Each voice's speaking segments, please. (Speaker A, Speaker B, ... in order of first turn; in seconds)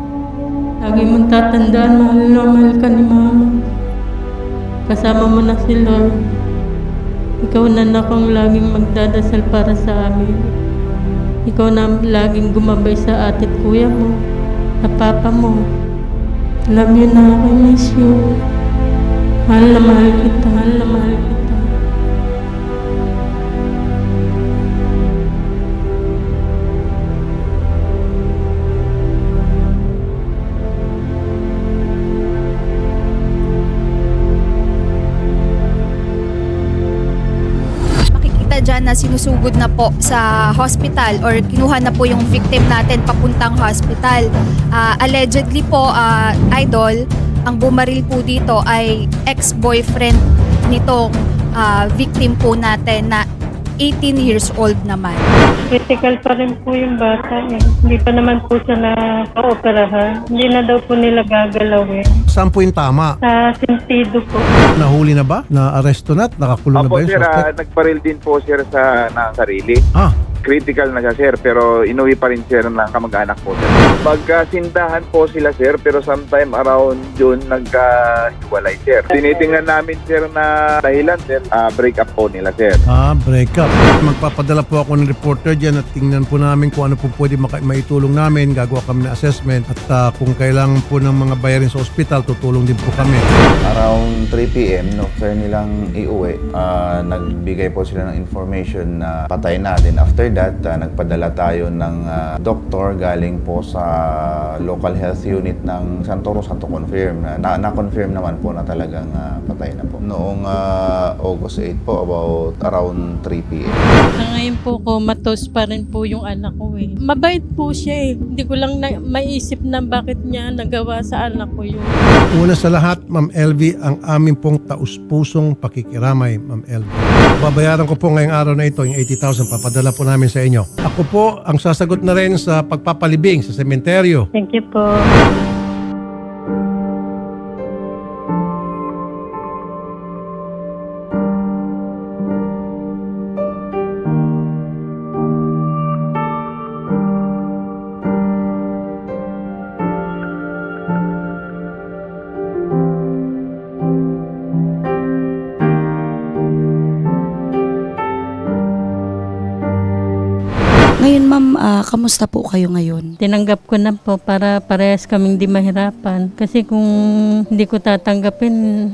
Speaker A: 0.8-3.5, 4.9-6.1, 7.4-10.3, 11.4-14.1, 14.8-15.6, 16.7-18.2, 19.5-21.6, 55.7-62.1, 63.2-64.4, 114.2-121.9, 134.3-135.1, 163.2-166.9, 167.5-168.5
Speaker B: 38.1-53.2, 53.8-55.3
Speaker C: 62.3-63.1, 64.8-67.5, 82.9-93.2, 122.3-134.3
Speaker D: 66.8-69.8, 70.4-82.8
Speaker E: 93.6-113.8
Speaker F: 161.0-163.1